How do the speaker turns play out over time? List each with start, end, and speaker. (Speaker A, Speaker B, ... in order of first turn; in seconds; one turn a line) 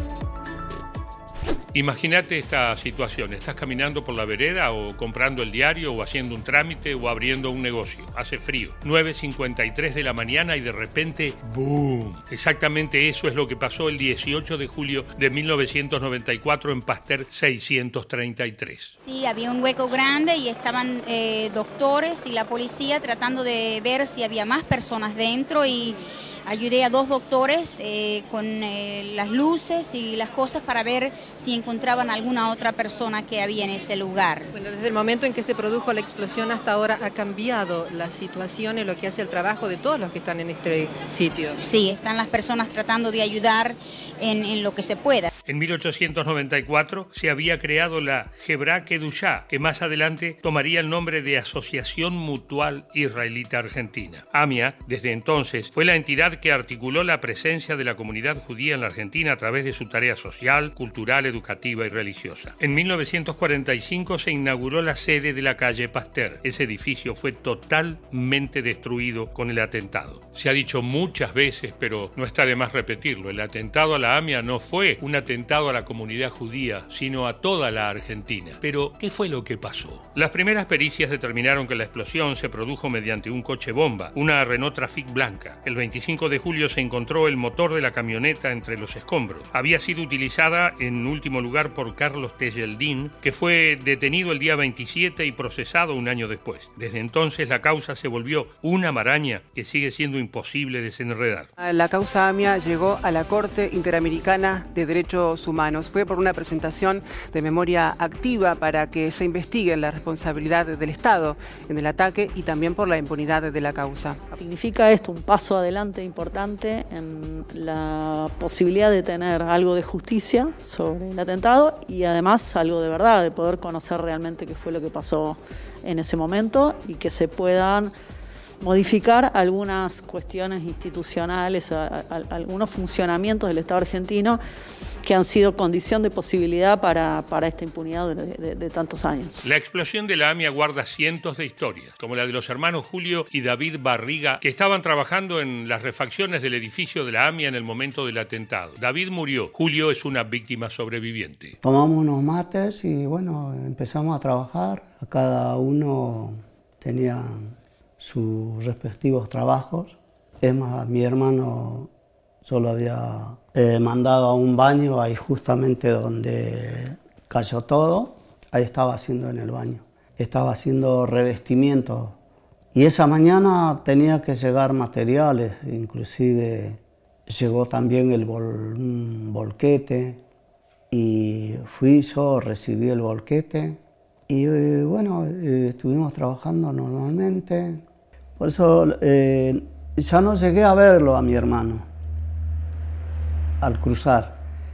Speaker A: 1.7-18.9
Speaker B: 19.0-25.9
Speaker B: 26.5-34.5
Speaker C: 34.5-41.6
Speaker B: 41.6-45.3
Speaker A: 45.5-101.5
Speaker D: 101.6-114.3
Speaker E: 114.3-127.9
Speaker E: 128.6-134.4
Speaker E: 135.0-139.4
Speaker A: 139.4-151.6
Speaker F: 151.6-161.9
Speaker F: 162.4-172.2
Speaker F: 172.7-180.2
Speaker F: 180.9-187.8
Speaker F: 188.4-191.8
Speaker F: 193.6-194.4